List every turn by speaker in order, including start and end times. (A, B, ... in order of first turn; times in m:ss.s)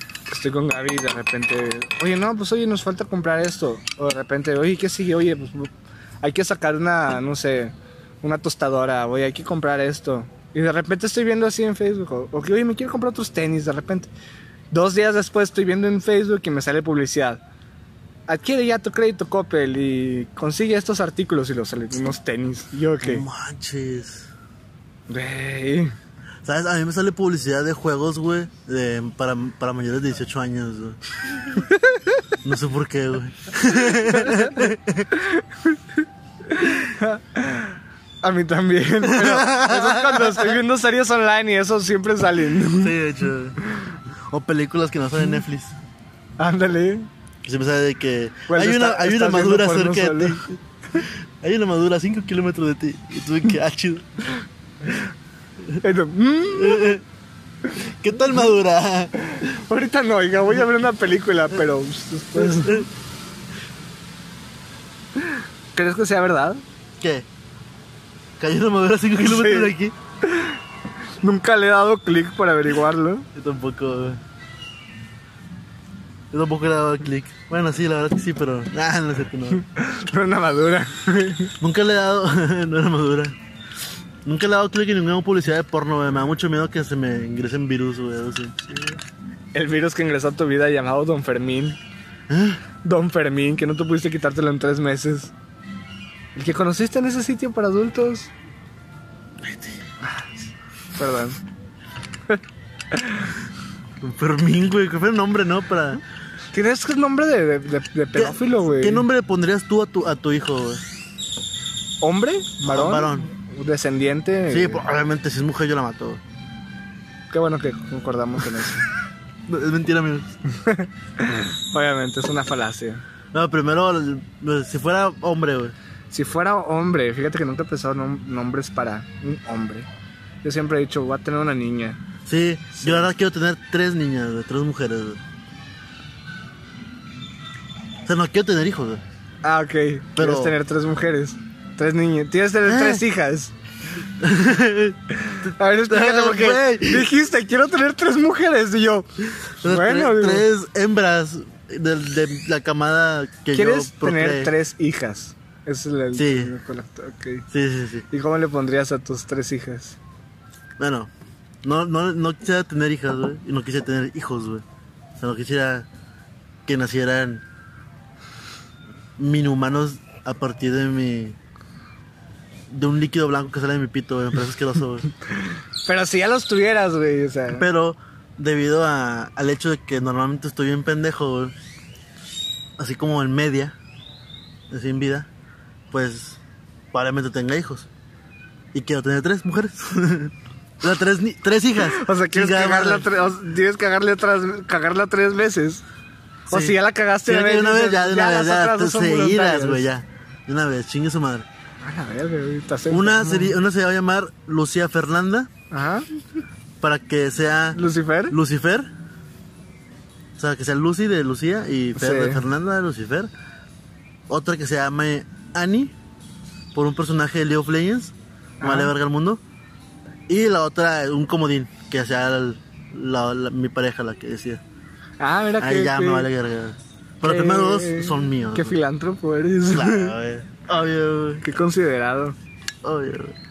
0:00.3-0:14.1 A
0:14.7-0:17.4 A
0:18.3-0:23.2 A
0:23.0-0:24.3 B
0:25.1-0:26.0 A
0:26.4-0:31.0 B
0:31.5-0:32.2 A
0:32.4-0:35.1 B
0:33.9-0:34.6 A
0:35.1-0:42.9 A
0:39.0-0:40.6 B
0:42.7-0:43.6 B
0:44.1-0:45.7 B
0:46.4-0:47.1 A
0:47.4-0:54.2 B
0:48.5-0:50.4 A
0:55.8-0:56.9 A
0:56.5-0:57.0 B
0:57.8-0:59.1 B
0:59.3-1:02.9 A
1:02.4-1:02.9 B
1:05.2-1:06.6 A
1:07.0-1:07.3 B
1:08.4-1:09.9 B
1:09.2-1:10.6 A
1:11.2-1:13.3 A
1:13.4-1:14.2 B
1:16.3-1:19.6 B
1:19.5-1:21.5 A
1:21.6-1:23.4 B
1:24.2-1:28.7 B
1:29.5-1:31.8 A
1:32.3-1:32.6 B
1:32.8-1:35.3 A
1:36.4-1:38.3 A
1:39.5-1:39.7 B
1:40.0-1:40.3 A
1:41.0-1:41.4 A
1:42.9-1:43.3 A
1:44.0-1:46.0 B
1:46.5-1:49.1 A
1:48.2-1:50.9 B
1:52.0-1:54.8 A
1:52.7-1:53.3 B
1:54.5-1:56.2 B
1:57.3-1:58.9 A
1:59.5-2:00.3 B
2:00.5-2:03.0 A
2:03.3-2:05.8 B
2:06.1-2:09.9 A
2:10.4-2:12.0 A
2:12.3-2:15.2 B
2:12.8-2:13.1 A
2:18.1-2:19.0 B
2:19.4-2:23.5 A
2:20.2-2:20.6 B
2:22.6-2:23.0 B
2:24.2-2:27.1 B
2:25.2-2:29.1 A
2:29.6-2:34.5 B
2:29.6-2:30.5 A
2:33.5-2:37.4 A
2:36.1-2:36.5 B
2:37.5-2:38.1 B
2:38.1-2:40.0 A
2:40.8-2:41.1 B
2:41.6-2:44.6 B
2:45.2-2:45.9 B
2:46.7-2:47.4 B
2:49.2-2:51.4 B
2:52.7-2:55.1 B
2:55.8-2:57.7 A
2:57.5-3:01.5 B
3:02.8-3:03.8 B
3:04.7-3:05.3 B
3:05.9-3:06.4 B
3:06.9-3:07.9 B
3:08.7-3:13.1 B
3:11.8-3:15.8 A
3:16.5-3:19.8 A
3:16.5-3:21.5 B
3:21.8-3:23.6 A
3:22.9-3:25.5 B
3:25.7-3:26.1 A
3:26.8-3:28.9 B
3:27.7-3:28.4 A
3:30.4-3:33.3 B
3:32.0-3:32.4 A
3:34.3-3:35.9 B
3:36.7-3:39.4 B
3:38.6-3:38.9 A
3:40.3-3:44.6 B
3:45.2-3:46.3 A
3:45.6-3:48.8 B
3:47.2-3:50.1 A
3:49.7-3:51.5 B
3:51.4-3:52.4 A
3:52.8-3:53.4 B